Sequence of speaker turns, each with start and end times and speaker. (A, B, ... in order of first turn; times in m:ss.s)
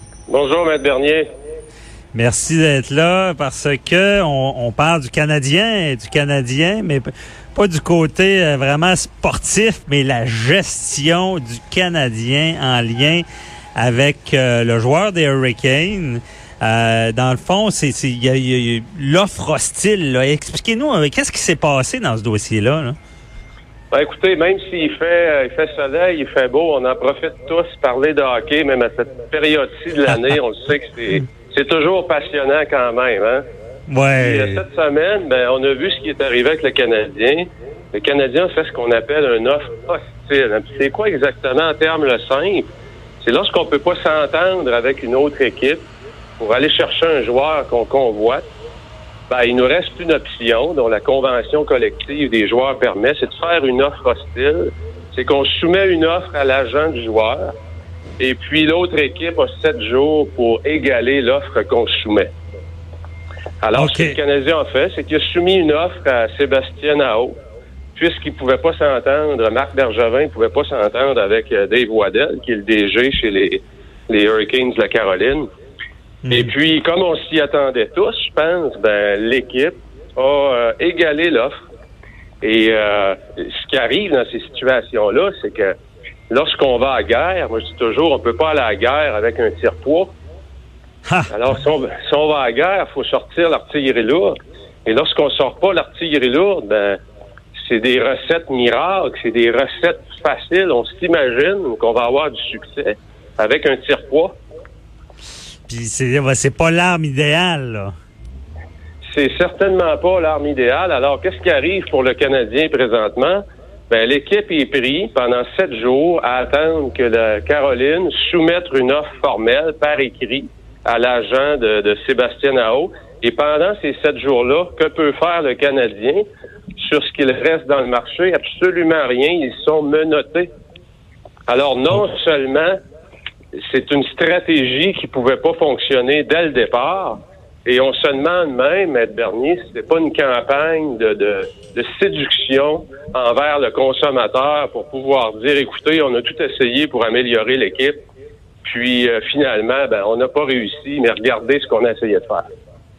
0:00.3-0:01.3 A
0:02.1-0:13.2 B
0:13.8-0:23.0 B
0:23.9-0:33.4 A
0:33.9-0:34.6 B
0:34.2-0:42.7 A
0:43.2-0:45.8 A
0:46.4-0:48.5 A
0:49.3-0:57.5 A
0:58.2-1:02.3 A
1:03.6-1:07.4 A
1:03.8-1:04.2 B
1:08.0-1:15.5 A
1:16.2-1:16.5 B
1:16.3-1:21.5 A
1:22.4-1:25.7 A
1:26.3-1:30.1 A
1:31.3-1:37.0 A
1:37.6-1:44.4 A
1:45.7-1:47.9 B
1:49.1-2:06.2 A
2:06.8-2:10.5 A
2:11.5-2:12.8 A
2:13.6-2:28.0 A
2:28.6-2:32.5 A